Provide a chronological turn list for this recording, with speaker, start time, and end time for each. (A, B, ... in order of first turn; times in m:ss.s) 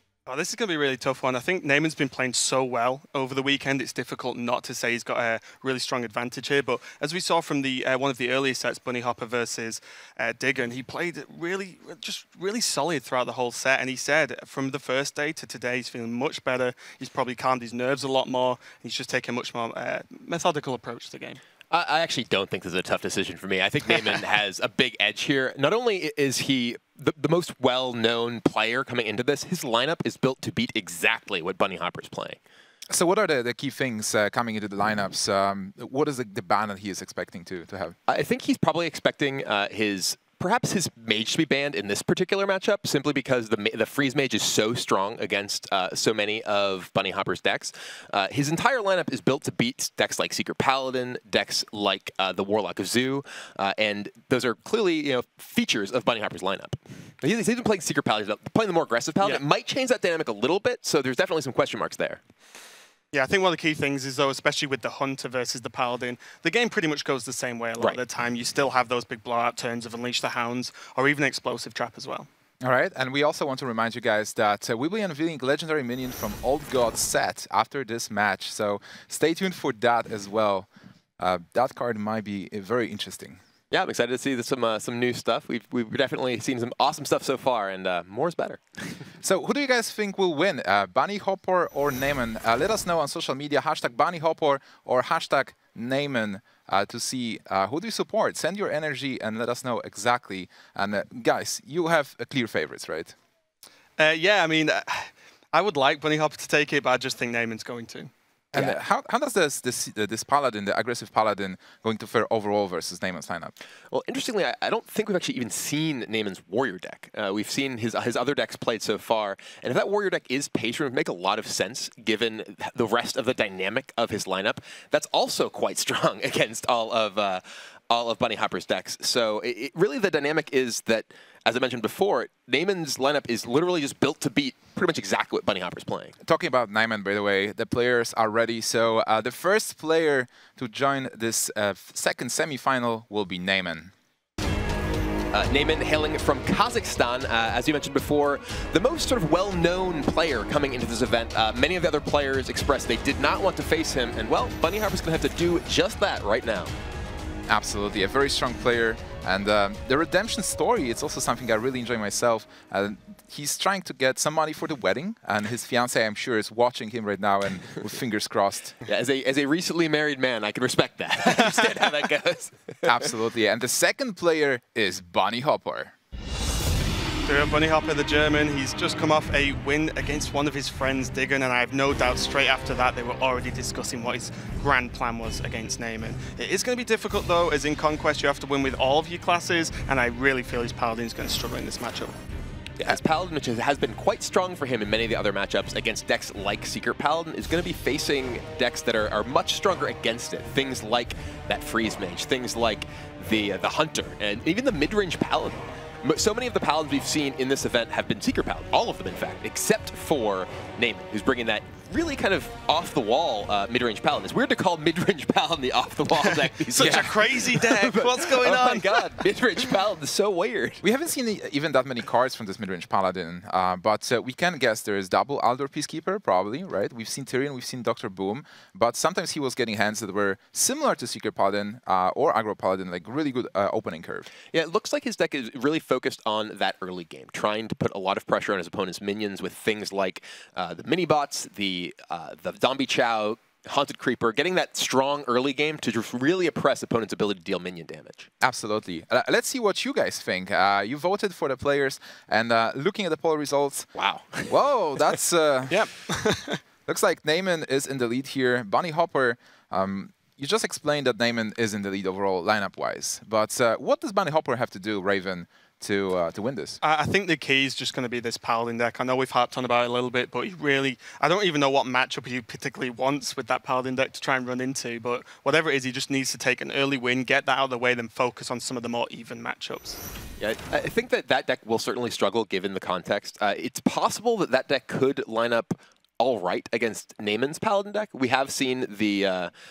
0:00.3-0:21.4 A
0:21.7-0:32.4 B
0:32.9-0:38.0 C
0:38.1-1:02.2 B
1:03.1-1:12.3 A
1:12.6-1:23.4 C
1:23.7-1:29.0 B
1:29.2-1:43.1 C
1:44.0-1:48.7 A
1:48.5-1:53.5 C
1:53.9-2:16.2 B
2:16.2-2:23.9 C
2:25.3-2:36.7 B
2:37.5-2:48.8 C
2:48.8-2:52.8 B
2:52.8-2:55.9 C
2:57.2-3:12.1 A
3:12.8-3:40.8 B
3:36.4-3:39.1 A
3:40.8-3:54.3 C
3:54.5-4:08.3 B
4:08.4-4:13.9 C
4:14.0-4:14.5 B
4:14.5-4:15.8 C
4:15.7-4:16.6 A
4:16.8-4:26.8 C
4:26.8-4:40.0 A
4:40.4-4:49.5 B